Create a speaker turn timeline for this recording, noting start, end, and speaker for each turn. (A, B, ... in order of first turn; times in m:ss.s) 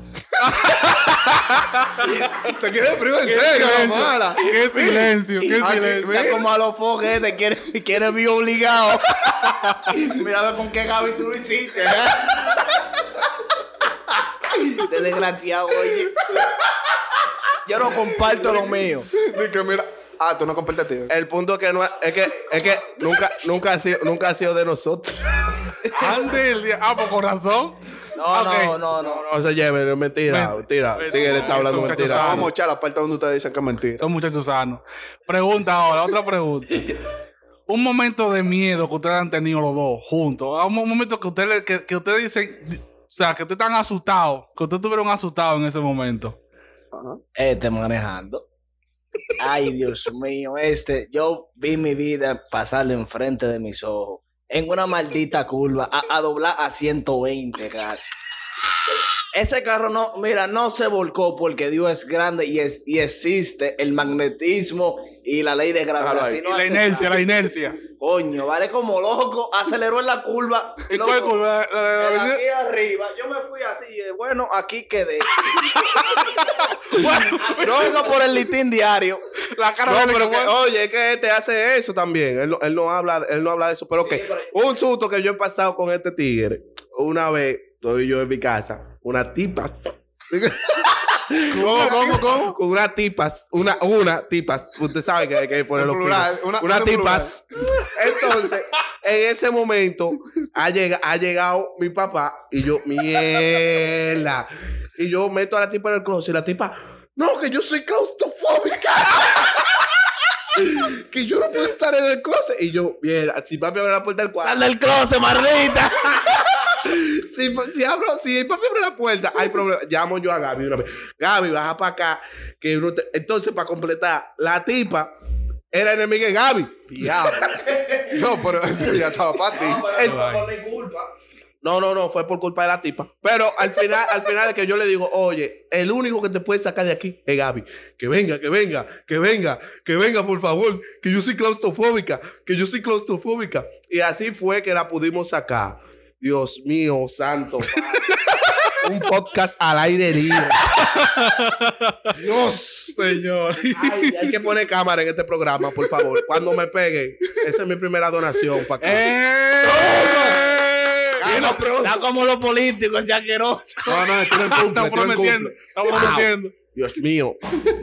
0:00.4-0:02.0 A
0:02.3-0:05.1 B
0:03.2-0:06.1 A
0:04.5-0:04.9 C
0:05.4-0:12.8 C
0:05.6-0:06.5 B
0:09.5-0:09.8 A
0:14.7-0:16.4 C
0:17.6-0:19.1 C
0:19.1-0:21.1 B
0:21.1-0:25.4 D
0:22.2-0:23.0 C
0:25.9-0:27.8 A
0:28.2-0:29.3 C
0:28.3-0:28.8 A
0:29.0-0:32.5 D
0:30.3-0:32.5 A
0:31.1-0:32.0 C
0:32.0-0:34.0 B
0:34.0-0:37.0 A
0:37.7-0:46.4 A
0:46.9-0:47.2 B
0:47.4-0:48.5 C
0:49.4-0:58.2 C
0:59.3-1:07.2 C
1:06.0-1:06.4 B
1:06.4-1:07.8 A
1:08.0-1:11.4 C
1:10.9-1:12.4 A
1:12.0-1:19.2 C
1:15.6-1:18.1 A
1:17.6-1:18.2 D
1:19.5-1:20.6 A
1:19.9-1:49.7 D
1:24.0-1:24.6 C
1:31.5-1:32.3 A
1:31.5-1:32.6 B
1:35.8-1:37.4 B
1:50.5-1:54.6 D
1:54.4-1:56.4 C
1:56.7-2:05.1 D
2:05.7-2:07.3 D
2:06.9-2:09.9 B
2:07.5-2:08.3 C
2:09.5-2:11.1 C
2:09.9-2:10.2 D
2:10.0-2:10.4 A
2:11.6-2:28.2 D
2:28.2-2:28.8 A
2:28.8-2:30.7 D
2:30.7-2:32.2 A
2:32.1-2:33.0 D
2:33.0-2:34.3 A
2:33.7-2:39.1 D
2:38.8-2:41.5 A
2:39.8-2:40.4 D
2:41.2-2:42.0 D
2:41.2-2:44.1 C
2:43.9-2:45.5 B
2:44.3-2:46.6 A
2:45.9-2:47.4 D